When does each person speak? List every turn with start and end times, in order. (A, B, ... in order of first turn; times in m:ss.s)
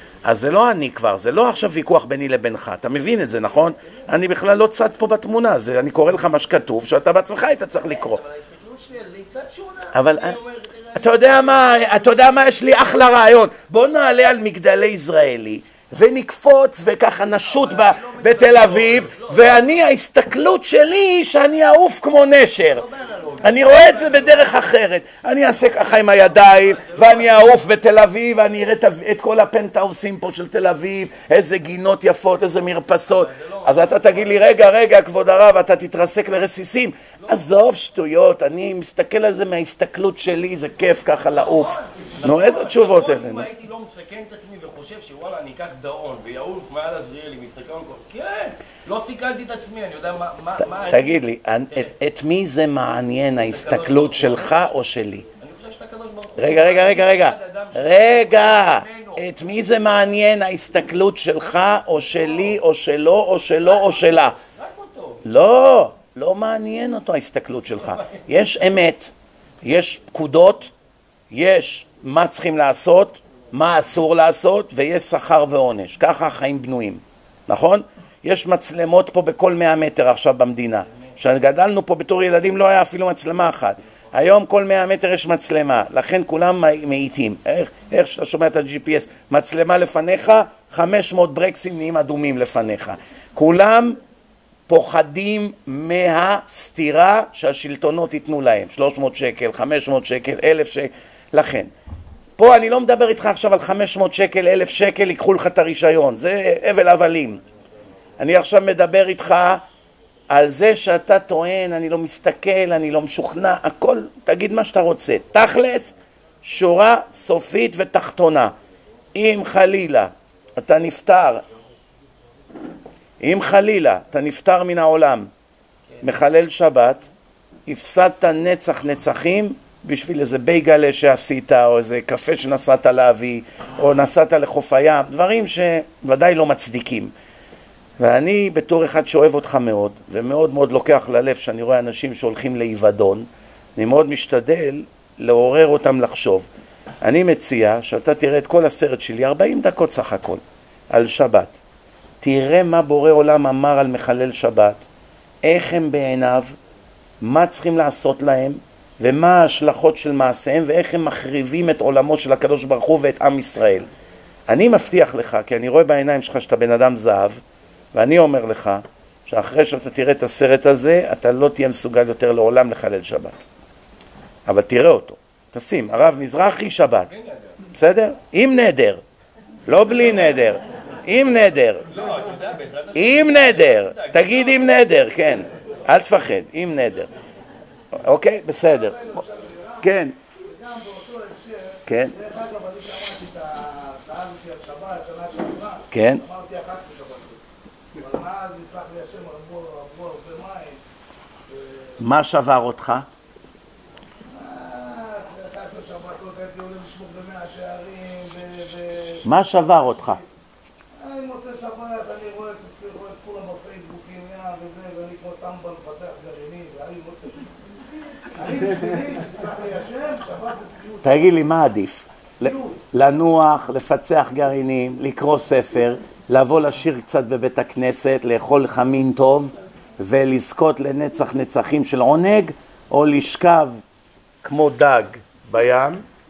0:00.2-0:08.2 A
0:03.7-0:04.1 B
0:07.7-0:13.0 B
0:09.9-0:10.4 A
0:11.0-0:22.8 A
0:17.4-0:19.8 B
0:22.7-0:24.5 B
0:23.4-0:43.5 A
0:26.0-0:27.7 B
0:33.1-0:34.5 B
0:41.3-0:51.2 B
0:50.8-0:55.3 A
0:53.5-0:54.7 B
0:55.4-0:59.3 B
0:56.4-1:04.4 A
1:03.6-1:05.2 B
1:05.2-1:10.7 A
1:07.8-1:08.2 B
1:11.3-1:34.0 A
1:34.7-1:41.7 A
1:42.4-1:47.4 A
1:48.2-1:49.6 A
1:50.3-1:55.9 A
1:56.4-1:58.5 A
1:59.2-2:01.4 A
2:03.2-2:05.3 A
2:06.0-2:07.1 A
2:07.7-2:17.1 A
2:18.0-2:26.5 A
2:27.0-2:31.6 A
2:32.2-2:34.8 A
2:35.4-2:36.6 A
2:37.2-2:43.9 A
2:44.5-2:47.4 A
2:47.9-2:53.4 A
2:54.5-2:57.1 A
2:57.1-2:57.6 B
2:57.7-2:59.0 A
2:59.7-3:01.9 A
3:01.9-3:04.8 B
3:03.0-3:07.1 A
3:08.0-3:09.2 A
3:08.6-3:17.4 C
3:09.8-3:10.1 A
3:11.9-3:12.2 A
3:15.9-3:16.2 A
3:18.0-3:20.8 C
3:21.5-3:22.0 C
3:22.0-3:23.1 A
3:24.3-3:30.2 C
3:29.2-3:30.2 A
3:31.0-3:37.5 C
3:38.3-3:41.4 C
3:41.0-3:53.8 A
3:42.4-3:42.8 B
3:54.4-3:56.0 A